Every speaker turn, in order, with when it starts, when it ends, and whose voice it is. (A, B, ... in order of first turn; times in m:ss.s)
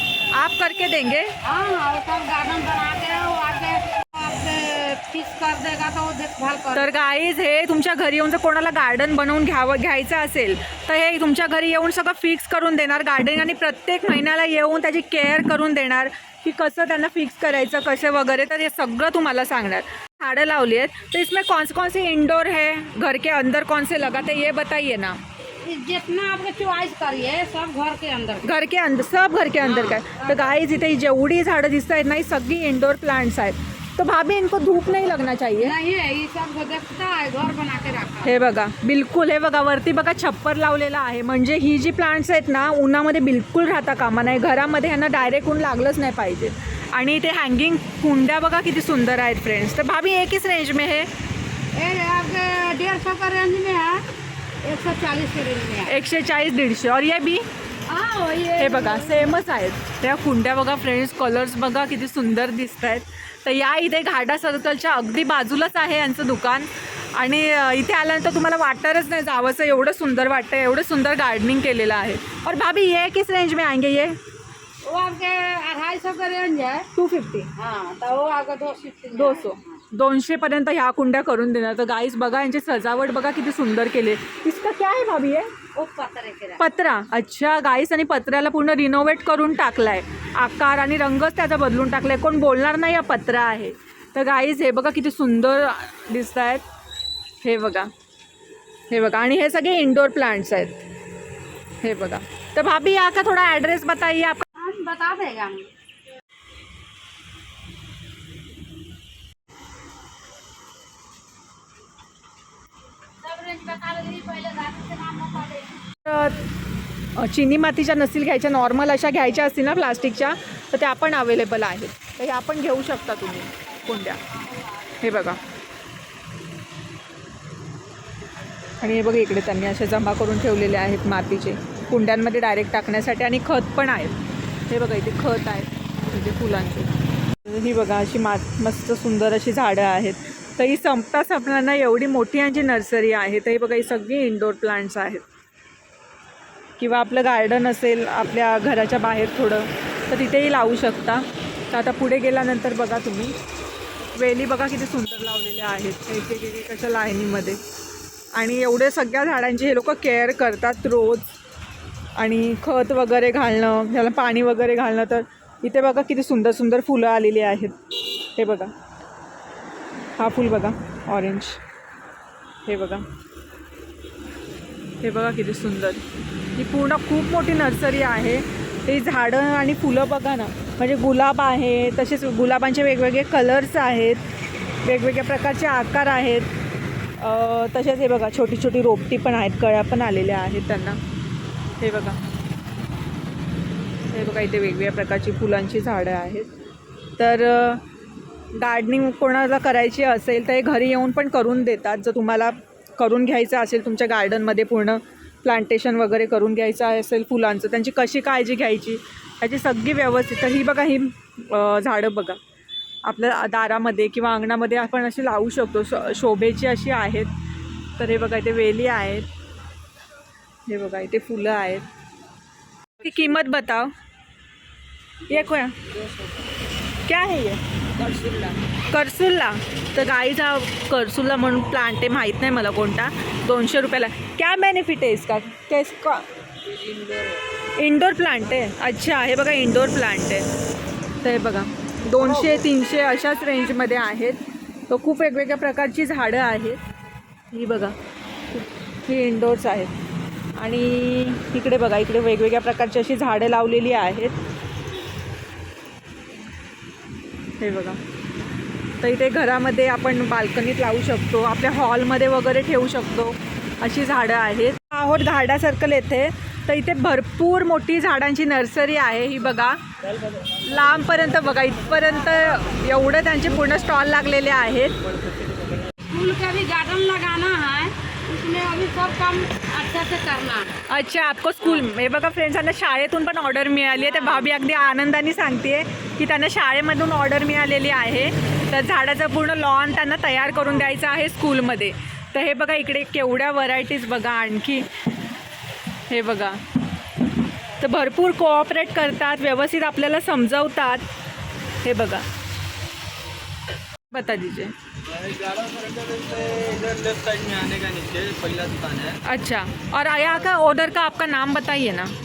0:00.3-0:01.3 A
0:01.4-0:06.9 B
0:06.7-0:25.2 A
0:25.6-0:28.5 B
0:28.4-0:35.7 A
0:29.6-0:30.5 B
0:35.6-0:38.3 B
0:38.2-0:51.1 A
0:51.7-0:54.0 B
0:54.6-0:56.0 B
0:55.9-0:57.4 A
0:57.9-0:59.4 B
0:58.6-1:14.2 A
1:14.8-1:16.9 B
1:17.0-1:17.5 A
1:17.5-1:19.8 B
1:19.1-1:25.5 A
1:25.7-1:26.6 B
1:26.6-1:36.6 A
1:37.4-1:37.9 A
1:38.9-1:40.8 A
1:41.8-1:44.4 A
1:44.5-1:45.7 B
1:53.2-1:55.8 B
1:56.0-1:56.4 A
1:57.2-2:04.2 A
2:05.0-2:05.4 A
2:08.8-2:14.2 A
2:14.7-2:16.9 A
2:17.4-2:25.2 A
2:26.8-2:33.3 A
2:34.1-2:37.6 A
2:38.3-2:41.4 A
2:42.2-2:47.7 A
2:48.4-2:48.7 A
2:50.2-2:51.6 A
2:52.6-2:53.0 A
2:55.0-2:56.0 A
2:56.6-3:04.2 A
3:04.8-3:06.5 A
3:07.2-3:11.0 A
3:11.8-3:12.2 A
3:14.1-3:16.5 A
3:17.2-3:17.8 A
3:18.6-3:32.4 A
3:33.0-3:37.3 A
3:38.0-3:39.3 A
3:40.7-3:41.8 A
3:43.0-3:43.9 A
3:45.3-3:45.7 A
3:47.0-3:47.6 A
3:48.1-3:48.5 C
3:48.2-3:56.2 A
3:56.8-3:57.2 C
3:57.8-4:00.4 A
4:01.2-4:06.8 A
4:07.5-4:07.9 A
4:08.5-4:09.9 A
4:10.6-4:14.3 A
4:17.6-4:18.0 A
4:19.0-4:29.8 A
4:30.6-4:35.0 A
4:36.1-4:40.8 B
4:40.9-4:54.8 A
4:44.0-4:44.5 B
4:56.1-4:56.6 A
4:57.8-5:01.0 A
5:01.8-5:02.2 A
5:04.1-5:04.7 A
5:05.0-5:09.2 C
5:09.2-5:12.1 A